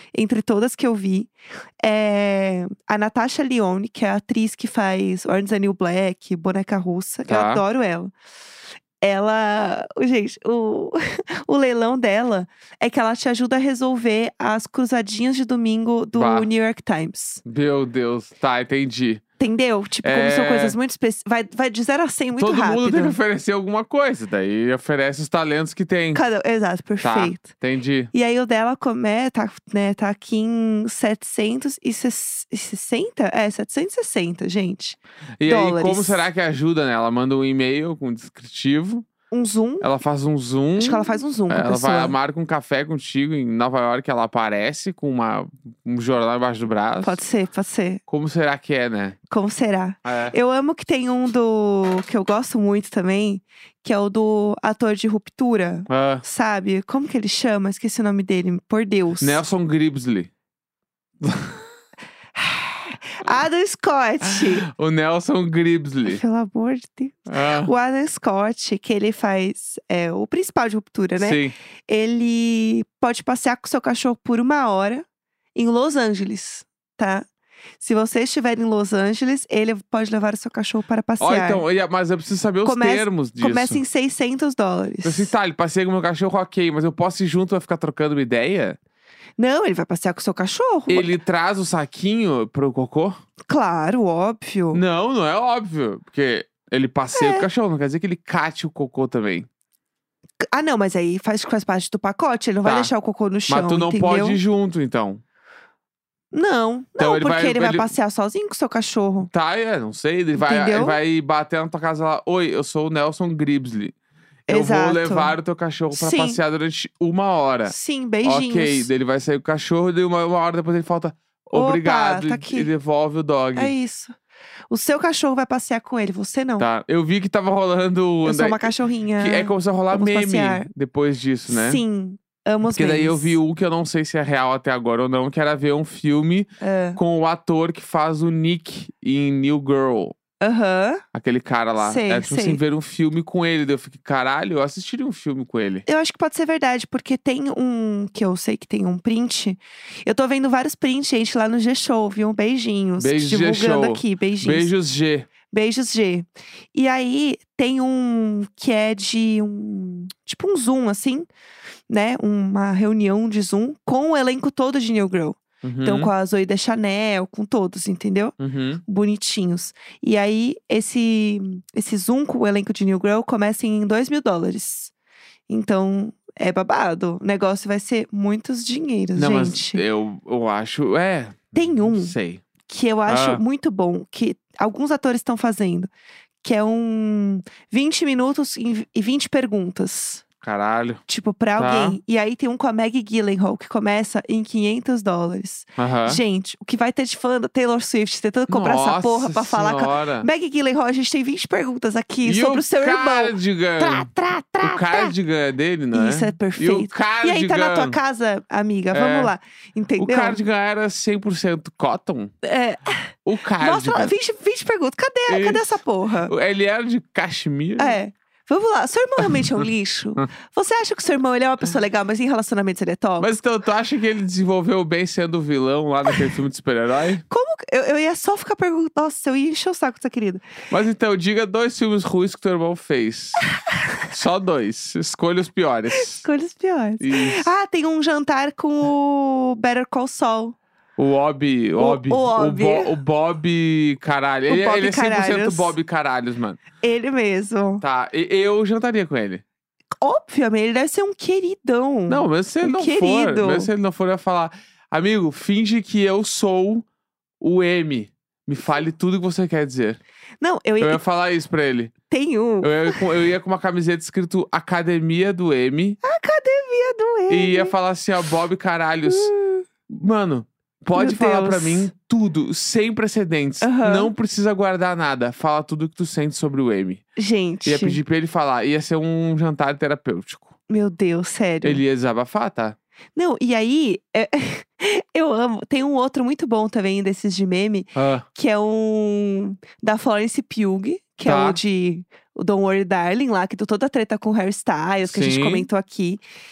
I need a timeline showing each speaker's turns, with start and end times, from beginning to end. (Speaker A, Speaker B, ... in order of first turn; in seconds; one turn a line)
Speaker A: 0.1-8.1
Speaker B: 7.3-7.6
Speaker A: 9.0-17.4
Speaker B: 16.1-16.5
Speaker B: 17.4-19.2
Speaker A: 19.4-23.2
Speaker B: 20.0-20.8
Speaker B: 22.4-26.2
Speaker A: 26.1-27.5
Speaker B: 27.0-28.1
Speaker A: 28.1-36.3
Speaker B: 35.4-39.1
Speaker A: 39.3-39.9
Speaker B: 39.8-47.2
Speaker A: 40.8-42.1
Speaker A: 47.0-48.0
Speaker B: 48.1-49.2
Speaker A: 49.3-59.4
Speaker B: 50.0-50.4
Speaker B: 55.9-56.2
Speaker B: 59.2-60.3
Speaker B: 61.2-61.6
Speaker A: 62.4-64.7
Speaker B: 64.3-66.2
Speaker A: 66.0-77.3
Speaker B: 67.3-67.7
Speaker B: 71.2-71.5
Speaker A: 77.8-81.6
Speaker B: 81.2-83.8
Speaker A: 82.7-85.3
Speaker B: 85.0-88.8
Speaker A: 89.4-91.1
Speaker B: 90.9-93.2
Speaker A: 93.5-94.8
Speaker B: 94.7-99.5
Speaker A: 97.1-97.5
Speaker A: 100.5-104.4
Speaker B: 102.6-102.9
Speaker B: 103.5-105.2
Speaker A: 106.3-109.3
Speaker B: 107.0-107.9
Speaker B: 109.3-114.0
Speaker A: 110.4-111.0
Speaker A: 114.5-115.4
Speaker B: 114.5-123.7
Speaker A: 115.9-116.4
Speaker A: 117.7-118.9
Speaker A: 121.5-122.7
Speaker A: 123.5-124.2
Speaker A: 124.7-126.7
Speaker B: 126.6-131.8
Speaker A: 128.2-130.7
Speaker A: 131.5-133.4
Speaker B: 132.7-140.2
Speaker A: 136.6-137.0
Speaker A: 140.4-141.0
Speaker B: 141.1-145.8
Speaker A: 141.8-142.6
Speaker A: 145.9-154.7
Speaker B: 153.0-155.3
Speaker A: 155.5-161.3
Speaker A: 161.9-174.9
Speaker B: 165.6-166.1
Speaker B: 168.4-168.8
Speaker A: 175.5-179.8
Speaker B: 179.2-182.4
Speaker A: 181.6-182.1
Speaker A: 182.7-185.9
Speaker B: 183.1-183.4
Speaker A: 186.4-190.2
Speaker B: 190.4-191.0
Speaker A: 191.1-205.2
Speaker B: 191.6-192.0
Speaker B: 195.8-196.2
Speaker B: 198.5-200.3
Speaker B: 202.2-204.1
Speaker B: 204.6-208.0
Speaker A: 205.9-210.4
Speaker B: 208.9-209.3
Speaker B: 210.0-212.3
Speaker A: 212.4-216.3
Speaker B: 213.2-214.1
Speaker B: 215.3-218.0
Speaker A: 217.8-223.3
Speaker B: 223.2-227.2
Speaker A: 227.3-230.4
Speaker B: 230.7-233.5
Speaker B: 234.1-236.2
Speaker A: 236.0-240.6
Speaker B: 237.0-237.5
Speaker B: 241.0-246.6
Speaker A: 241.8-242.9
Speaker A: 244.5-245.8
Speaker A: 246.8-247.8
Speaker B: 247.8-249.4
Speaker A: 250.0-253.7
Speaker B: 252.1-256.9
Speaker B: 257.4-260.0
Speaker A: 260.4-261.0
Speaker B: 260.8-261.9
Speaker A: 262.1-263.1
Speaker B: 262.6-266.0
Speaker A: 266.0-267.7
Speaker B: 267.3-269.3
Speaker A: 269.1-269.6
Speaker B: 269.9-277.0
Speaker A: 270.9-271.9
Speaker A: 273.6-274.1
Speaker A: 277.2-278.0
Speaker B: 277.6-280.5
Speaker A: 280.7-281.8
Speaker B: 281.6-282.8
Speaker A: 283.2-296.2
Speaker B: 288.0-288.2
Speaker B: 291.2-291.6
Speaker B: 295.1-295.7